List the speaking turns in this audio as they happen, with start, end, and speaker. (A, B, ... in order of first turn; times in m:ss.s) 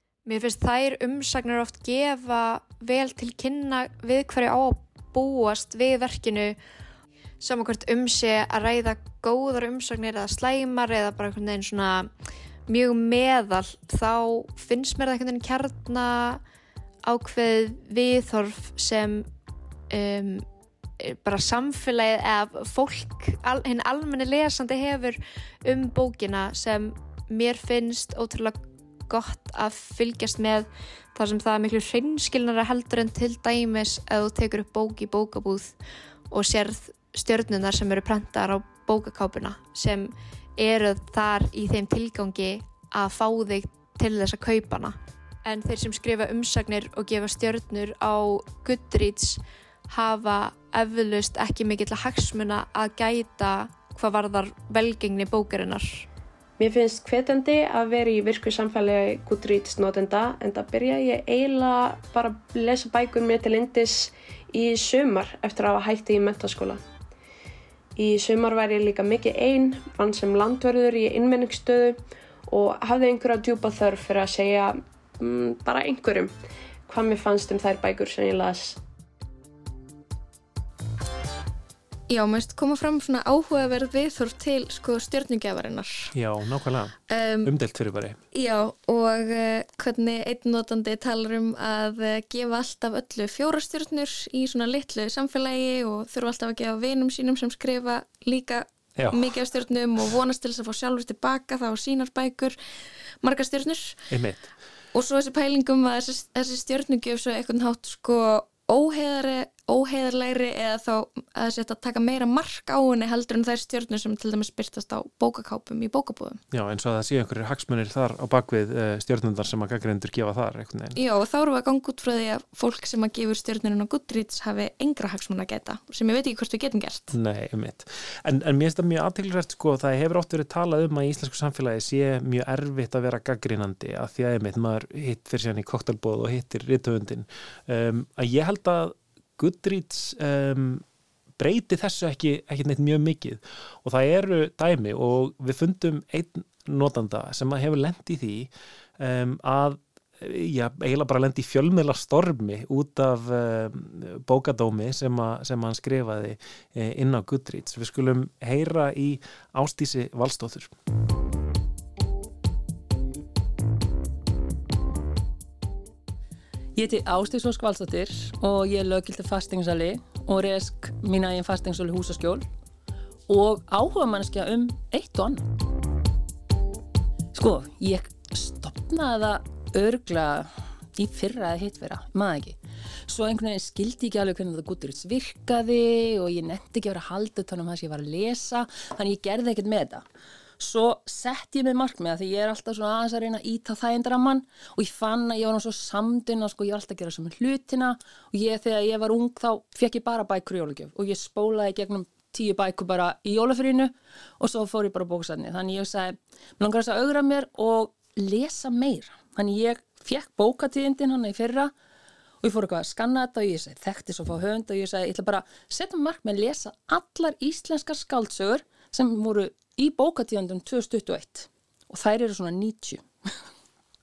0:00.3-0:06.6 A
0:07.4-0:12.1 A
0:12.7-0:16.4 A
0:17.0-0:19.3 A
0:19.9-0:20.5 A
0:21.0-0:35.8 A
0:36.3-0:56.0 A
0:56.6-1:06.8 B
1:08.0-1:16.4 B
1:16.9-1:18.8 B
1:22.1-1:26.1 C
1:26.1-1:28.2 D
1:27.1-1:27.5 C
1:28.3-1:42.6 C
1:39.0-1:39.4 D
1:43.2-1:44.0 C
1:44.1-1:44.5 D
1:44.9-1:56.4 C
1:56.5-2:01.0 D
2:01.0-2:07.2 C
2:07.1-2:20.8 D
2:21.4-2:40.7 D
2:46.8-2:52.5 E
2:53.3-2:55.5 E
2:57.3-3:10.0 E
3:10.6-3:31.7 E
3:32.4-3:43.1 E